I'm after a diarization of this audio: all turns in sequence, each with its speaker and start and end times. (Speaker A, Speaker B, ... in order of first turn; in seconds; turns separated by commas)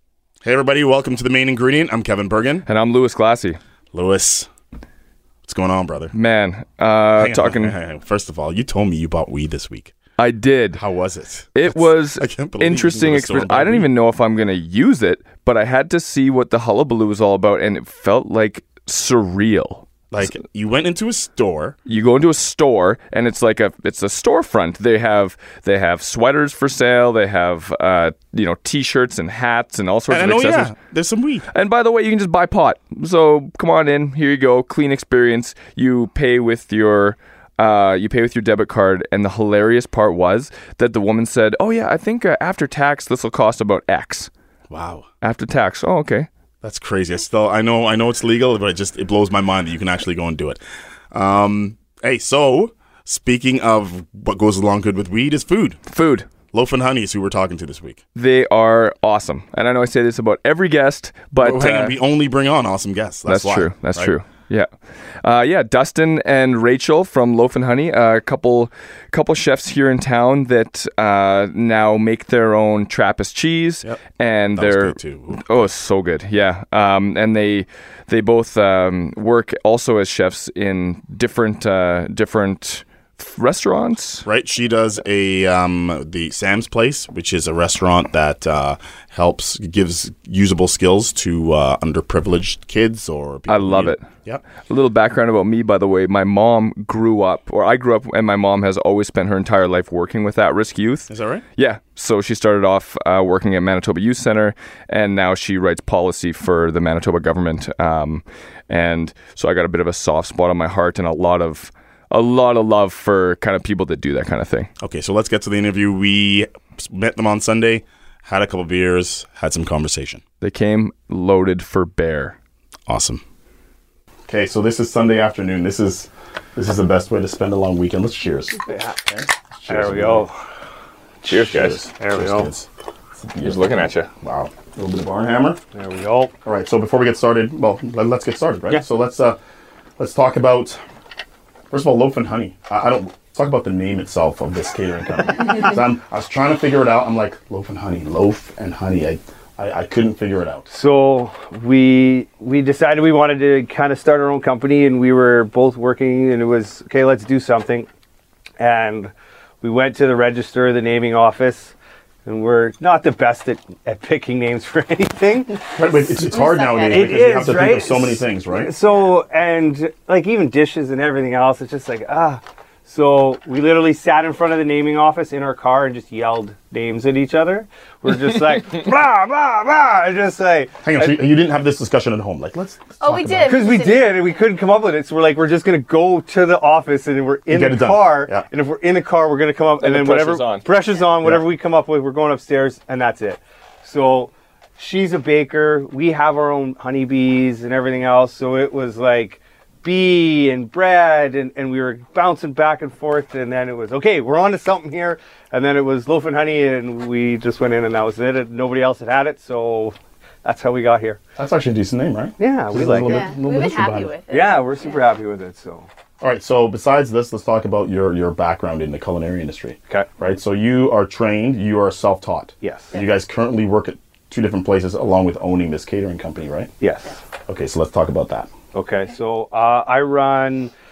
Speaker A: 0.4-2.7, Speaker B: 2.7-3.6, Speaker A: 3.9-4.5, Speaker A: 5.4-6.1, Speaker B: 6.1-7.7, Speaker A: 7.2-9.9, Speaker B: 10.2-10.8, Speaker A: 10.8-13.9, Speaker B: 11.5-19.9, Speaker A: 20.1-21.8, Speaker B: 21.9-30.7, Speaker A: 30.1-31.4, Speaker B: 31.5-44.3, Speaker A: 44.7-45.0, Speaker B: 45.2-46.3, Speaker A: 46.6-50.6, Speaker A: 51.1-55.8, Speaker B: 55.9-56.3, Speaker A: 56.5-58.0, Speaker B: 58.1-61.9, Speaker A: 61.4-64.1, Speaker B: 63.3-64.7, Speaker B: 65.2-84.2, Speaker A: 74.5-75.7, Speaker A: 84.2-94.4, Speaker B: 93.5-94.0, Speaker B: 94.6-114.7, Speaker A: 101.1-101.4, Speaker A: 114.8-120.2, Speaker B: 120.4-122.3, Speaker A: 122.9-123.2, Speaker A: 124.3-130.3, Speaker C: 128.7-129.0, Speaker C: 129.7-130.3, Speaker C: 131.2-132.5, Speaker A: 131.3-135.6, Speaker B: 133.4-134.1, Speaker C: 135.7-136.3, Speaker A: 136.4-139.4, Speaker A: 140.0-140.8, Speaker A: 141.7-150.7, Speaker C: 150.7-157.9, Speaker C: 158.6-165.7, Speaker A: 165.7-168.7, Speaker D: 166.2-167.3, Speaker C: 166.9-180.8, Speaker A: 180.8-183.6, Speaker D: 183.0-184.3, Speaker C: 183.4-211.2, Speaker A: 187.5-188.4, Speaker B: 189.8-190.7, Speaker A: 211.3-214.1, Speaker C: 212.4-213.2, Speaker D: 213.0-215.0, Speaker C: 214.3-215.9, Speaker A: 216.2-226.7, Speaker C: 222.6-222.9, Speaker C: 226.8-227.2, Speaker A: 227.5-228.5, Speaker C: 228.7-230.7